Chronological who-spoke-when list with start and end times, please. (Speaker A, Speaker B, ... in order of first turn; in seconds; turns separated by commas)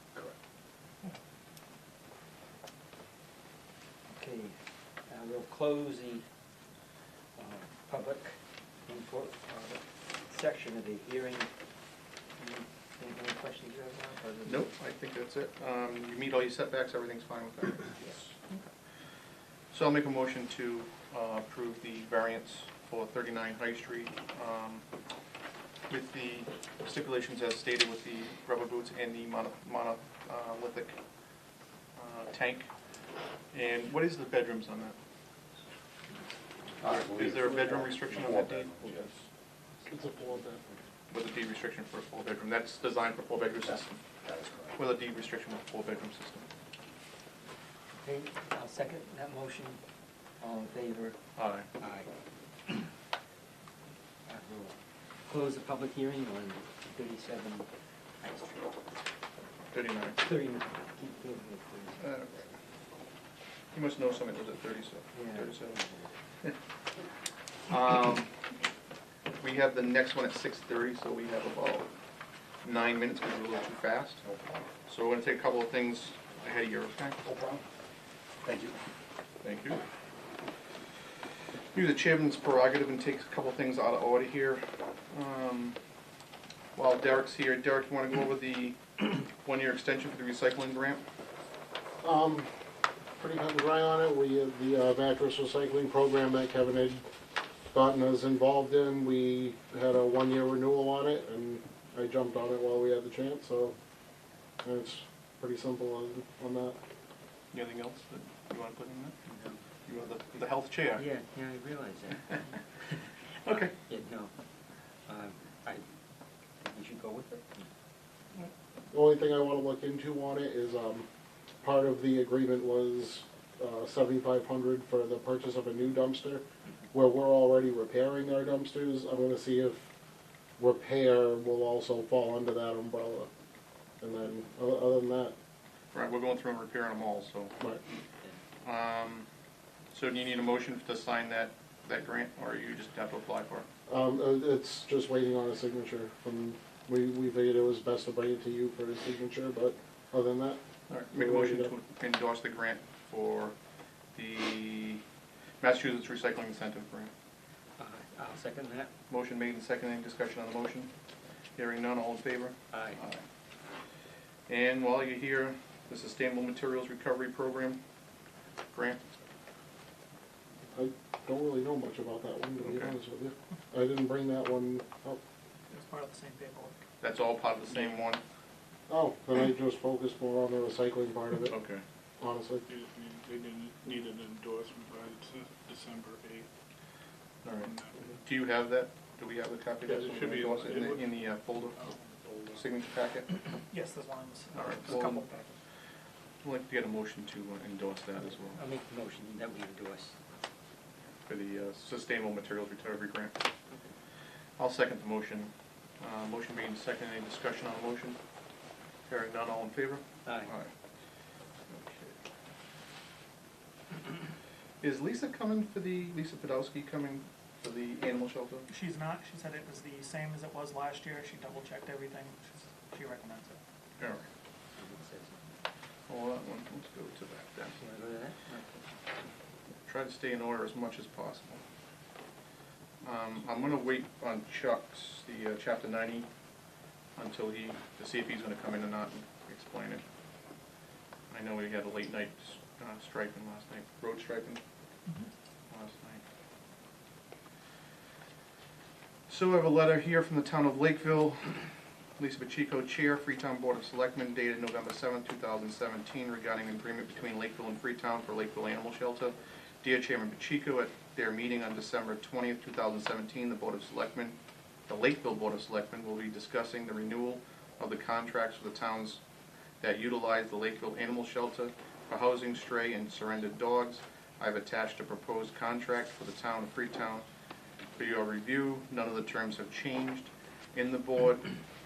Speaker A: 4.1-4.5, Speaker A: 5.1-6.2, Speaker A: 7.3-11.5, Speaker A: 12.4-14.7, Speaker B: 14.4-18.4, Speaker B: 19.7-24.8, Speaker B: 25.9-30.9, Speaker B: 32.0-32.7, Speaker B: 33.5-35.0, Speaker A: 36.6-37.1, Speaker C: 36.8-39.1, Speaker B: 36.9-39.0, Speaker D: 39.9-40.6, Speaker A: 40.2-40.8, Speaker B: 41.1-44.0, Speaker C: 44.2-44.8, Speaker B: 44.7-46.5, Speaker A: 48.0-49.8, Speaker A: 50.4-51.1, Speaker B: 51.4-51.7, Speaker A: 51.8-52.1, Speaker A: 54.3-57.7, Speaker A: 58.2-58.7, Speaker B: 59.7-60.2, Speaker A: 60.2-62.1, Speaker B: 62.0-62.4, Speaker B: 63.7-65.8, Speaker A: 65.1-66.1, Speaker B: 67.7-68.3, Speaker B: 69.4-71.9, Speaker B: 72.6-74.2, Speaker C: 74.2-74.6, Speaker B: 74.8-77.2, Speaker C: 77.2-77.6, Speaker C: 78.4-78.7, Speaker B: 79.4-79.8, Speaker B: 81.7-85.8, Speaker B: 86.7-91.0, Speaker D: 92.0-92.5, Speaker D: 93.2-97.0, Speaker D: 97.7-103.7, Speaker D: 104.6-106.8, Speaker B: 107.5-109.2, Speaker A: 109.3-109.6, Speaker B: 109.8-111.0, Speaker A: 111.0-112.6, Speaker B: 113.4-113.7, Speaker A: 113.5-114.3, Speaker A: 115.1-115.8, Speaker A: 116.6-117.7, Speaker D: 118.9-121.0, Speaker D: 121.6-129.9, Speaker D: 130.6-133.3, Speaker D: 134.0-135.3, Speaker B: 135.9-137.5, Speaker B: 138.6-139.2, Speaker B: 139.9-143.7, Speaker D: 143.9-150.6, Speaker B: 150.9-153.5, Speaker D: 151.1-151.7, Speaker B: 154.1-155.0, Speaker B: 155.6-157.1, Speaker A: 157.8-158.9, Speaker B: 159.1-160.9, Speaker B: 161.6-163.2, Speaker A: 162.7-163.0, Speaker B: 164.5-167.8, Speaker B: 168.7-169.1, Speaker D: 170.7-175.2, Speaker B: 172.6-172.9, Speaker E: 175.7-176.8, Speaker B: 177.0-178.2, Speaker D: 178.9-181.6, Speaker B: 181.5-181.8, Speaker D: 182.2-182.6, Speaker F: 182.7-186.5, Speaker B: 187.4-191.9, Speaker F: 187.5-188.2, Speaker F: 189.8-191.1, Speaker E: 191.9-192.1, Speaker F: 192.1-192.6, Speaker B: 192.5-193.3, Speaker E: 193.7-195.5, Speaker B: 194.5-195.2, Speaker B: 196.4-198.6, Speaker A: 198.4-200.2, Speaker B: 201.2-203.3, Speaker B: 204.6-208.2, Speaker B: 209.1-210.7, Speaker A: 210.2-210.5, Speaker B: 211.7-212.2, Speaker B: 214.8-218.7, Speaker E: 218.7-223.6, Speaker B: 224.0-224.2, Speaker A: 224.8-225.4, Speaker B: 226.1-227.8, Speaker A: 227.8-228.8, Speaker B: 229.8-231.6, Speaker B: 233.0-236.3, Speaker B: 237.2-240.0, Speaker B: 241.3-244.6, Speaker B: 245.7-246.2, Speaker B: 249.3-251.6, Speaker B: 252.2-264.4, Speaker B: 264.9-269.2, Speaker B: 269.8-277.2, Speaker B: 278.0-281.5